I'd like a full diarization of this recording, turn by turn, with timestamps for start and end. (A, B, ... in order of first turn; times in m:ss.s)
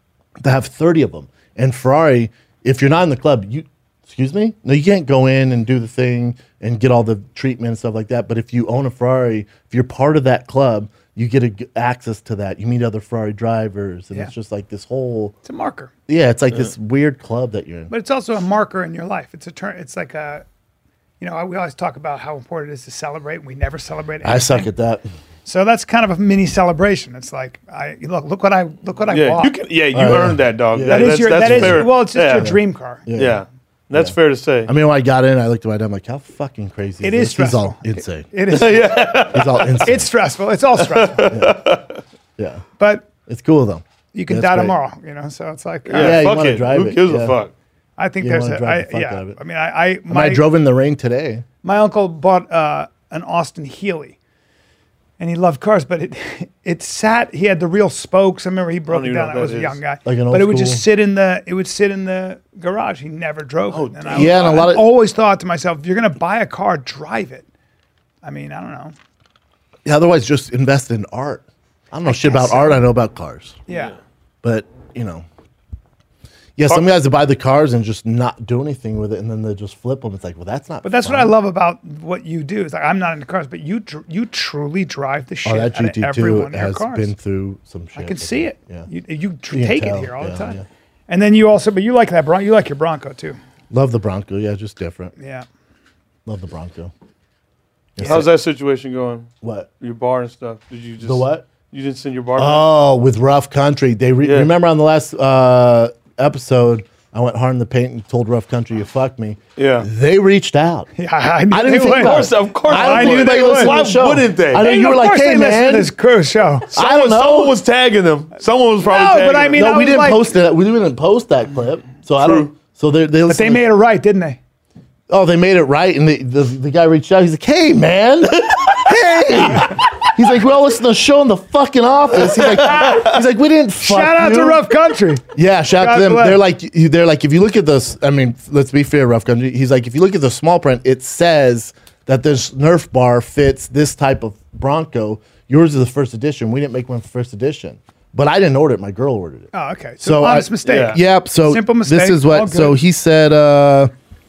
0:00.4-0:15.3 A
0:15.4-0:15.9 B
0:16.1-0:17.9 A
0:17.9-0:20.4 B
0:21.2-0:24.7 B
0:24.2-0:25.1 A
0:25.4-0:29.6 B
0:29.1-0:32.5 C
0:29.9-0:34.1 A
0:30.9-0:33.0 B
0:33.1-0:34.7 C
0:34.6-0:40.0 A
0:37.0-0:39.2 B
0:38.5-0:39.9 C
0:39.8-0:41.4 B
0:40.8-0:42.0 C
0:41.3-0:41.6 A
0:42.4-0:42.6 A
0:42.8-0:43.1 B
0:43.2-0:44.7 A
0:44.1-0:46.2 B
0:45.9-0:47.5 C
0:46.0-0:47.4 A
0:48.0-0:50.4 B
0:48.2-0:49.4 A
0:50.1-0:51.4 A
0:51.6-0:54.2 B
0:55.2-1:07.4 B
0:58.9-0:59.8 C
1:00.0-1:00.8 A
1:03.7-1:04.4 C
1:04.1-1:04.9 A
1:08.2-1:08.9 B
1:09.8-1:13.6 A
1:12.0-1:12.8 B
1:13.7-1:13.9 B
1:14.4-1:15.2 A
1:16.6-1:21.3 A
1:20.8-1:27.1 B
1:25.4-1:28.9 A
1:28.0-1:33.4 B
1:29.5-1:30.6 A
1:33.7-1:35.1 A
1:35.2-1:35.4 B
1:36.2-1:36.9 A
1:37.9-1:38.3 A
1:38.0-1:42.6 C
1:39.4-1:39.7 A
1:41.0-1:41.5 A
1:42.4-1:50.9 A
1:44.2-1:44.5 C
1:49.6-1:49.9 C
1:51.0-1:53.8 B
1:51.5-1:55.9 A
1:51.9-1:54.7 C
1:54.6-1:56.7 B
1:56.7-1:59.6 C
1:56.7-1:57.6 A
1:58.8-2:00.2 B
1:59.5-2:03.7 A
2:02.2-2:02.5 C
2:03.3-2:04.4 B
2:05.1-2:14.6 A
2:12.6-2:13.0 C
2:13.8-2:15.2 B
2:15.3-2:33.9 A
2:15.8-2:16.4 B
2:29.5-2:32.8 B
2:30.6-2:31.0 C